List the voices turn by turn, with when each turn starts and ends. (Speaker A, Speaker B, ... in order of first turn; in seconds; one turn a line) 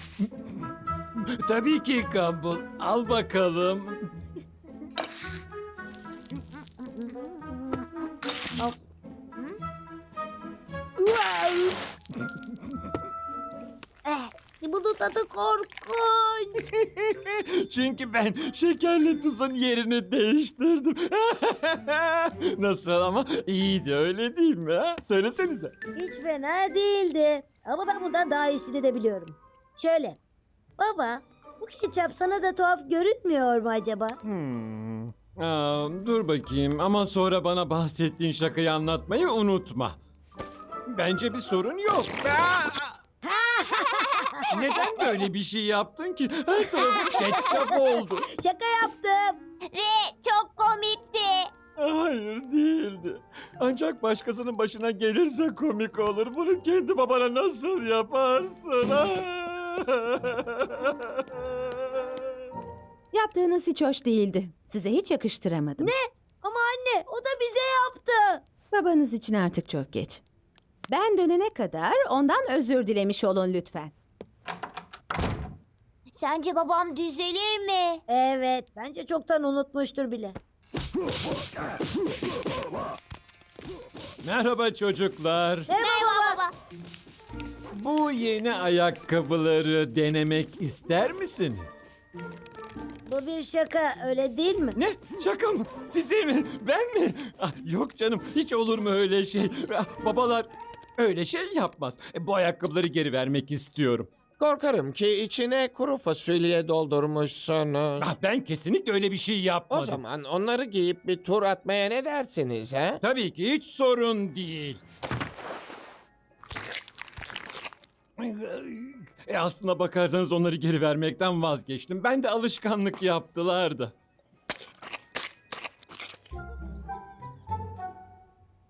Speaker A: 0.2-0.6
Speaker A: 1.4-4.1
Speaker B: 7.1-7.8
Speaker B: 11.0-11.8
Speaker B: 14.0-16.6
Speaker A: 17.0-25.7
Speaker B: 25.9-30.2
Speaker B: 30.8-34.2
Speaker A: 34.2-40.0
Speaker A: 40.9-42.9
Speaker B: 43.2-44.5
Speaker A: 44.5-48.2
Speaker B: 47.0-47.5
Speaker B: 48.3-49.4
Speaker C: 49.7-51.5
Speaker A: 51.8-62.2
Speaker D: 63.1-65.8
Speaker B: 65.8-68.4
Speaker D: 68.7-70.2
Speaker D: 70.9-73.9
Speaker C: 76.1-78.0
Speaker B: 78.1-80.4
Speaker A: 84.2-85.7
Speaker B: 85.7-86.4
Speaker C: 85.8-86.5
Speaker A: 87.7-91.9
Speaker B: 93.1-94.8
Speaker A: 94.8-104.1
Speaker E: 104.4-108.1
Speaker A: 108.0-110.0
Speaker E: 109.7-113.0
Speaker A: 113.0-114.8
Speaker A: 118.2-123.9